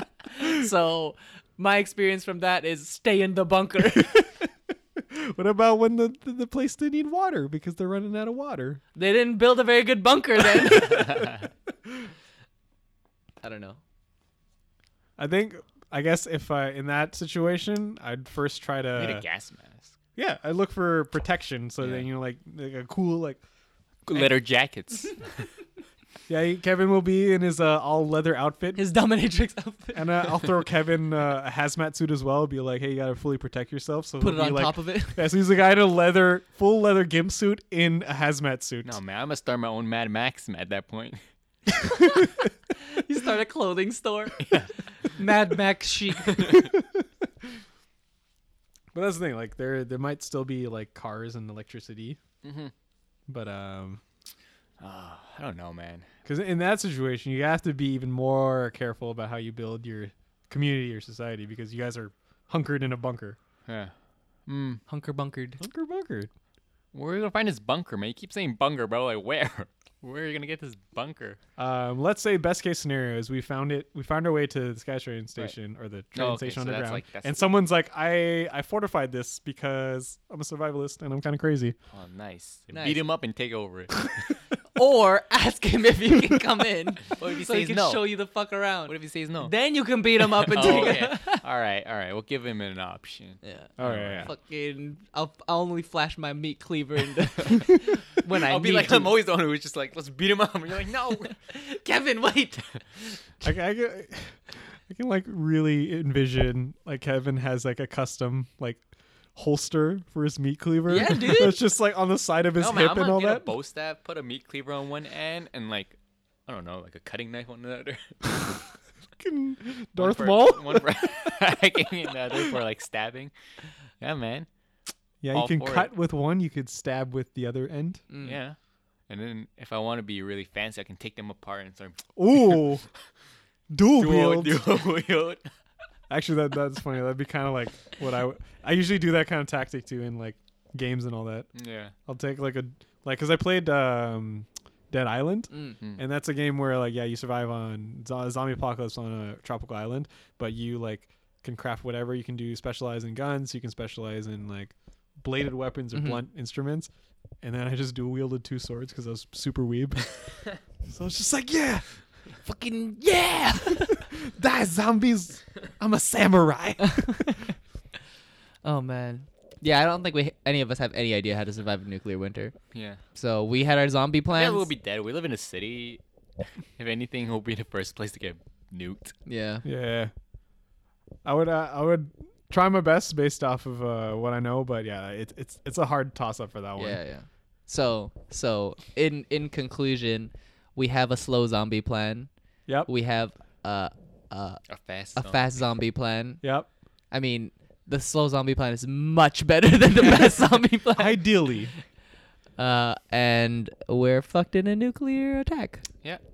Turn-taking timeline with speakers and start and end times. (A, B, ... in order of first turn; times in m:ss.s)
0:00.3-0:04.1 A
0:03.9-0:08.8 B
0:09.0-0:11.3 A
0:10.6-0:11.3 B
0:13.4-0:13.8 A
0:15.2-0:19.2 B
0:19.0-0:20.0 C
0:20.2-0:23.4 B
0:21.8-0:22.1 C
0:24.1-0:25.3 C
0:26.3-0:28.8 B
0:28.8-0:30.4 A
0:30.0-0:39.0 B
0:34.2-0:35.2 A
0:38.8-0:41.2 C
0:42.0-0:44.5 A
0:44.4-0:44.7 C
0:45.0-0:46.6 A
0:46.3-0:46.6 C
0:46.6-0:47.0 B
0:48.9-0:52.2 B
0:52.4-0:52.7 C
0:53.3-0:54.0 B
0:54.8-0:56.1 C
0:56.2-1:03.4 B
1:03.7-1:03.9 C
1:04.5-1:04.8 C
1:04.9-1:05.6 A
1:05.6-1:06.3 B
1:06.9-1:11.4 C
1:11.6-1:21.8 B
1:16.2-1:17.5 C
1:21.9-1:24.3 C
1:22.7-1:23.0 A
1:24.8-1:31.4 A
1:27.1-1:28.1 C
1:28.9-1:29.5 C
1:30.3-1:34.3 C
1:33.4-1:39.2 A
1:33.8-1:34.3 B
1:38.3-1:41.4 C
1:41.4-1:43.4 A
1:43.4-1:44.4 B
1:44.9-1:48.8 B
1:49.4-1:53.5 B
1:50.9-1:51.6 A
1:52.6-1:58.5 C
1:59.2-2:01.4 B
2:00.0-2:03.3 C
2:04.0-2:04.5 C
2:05.2-2:08.0 B
2:05.3-2:05.9 C
2:08.1-2:08.4 A
2:08.2-2:08.6 C
2:09.1-2:12.7 C
2:12.2-2:12.9 B
2:13.7-2:14.6 B
2:14.0-2:15.5 C
2:16.1-2:21.5 B
2:21.6-2:21.9 C
2:22.1-2:36.9 B
2:35.9-2:36.2 A
2:37.4-2:40.4 B
2:40.9-2:41.9 B
2:42.4-2:44.1 A
2:43.8-2:47.5 B
2:46.8-2:47.4 A
2:48.6-2:52.6 A
2:52.7-2:53.0 C
2:53.1-2:54.7 A
2:54.3-2:56.0 C
2:56.8-2:59.2 C
2:59.3-2:59.6 A
2:59.6-3:00.1 B
3:01.2-3:07.0 B
3:06.8-3:12.3 A
3:12.9-3:16.4 A
3:14.7-3:15.6 C
3:16.4-3:16.7 B
3:17.1-3:21.3 A
3:21.0-3:21.7 B
3:22.6-3:25.8 A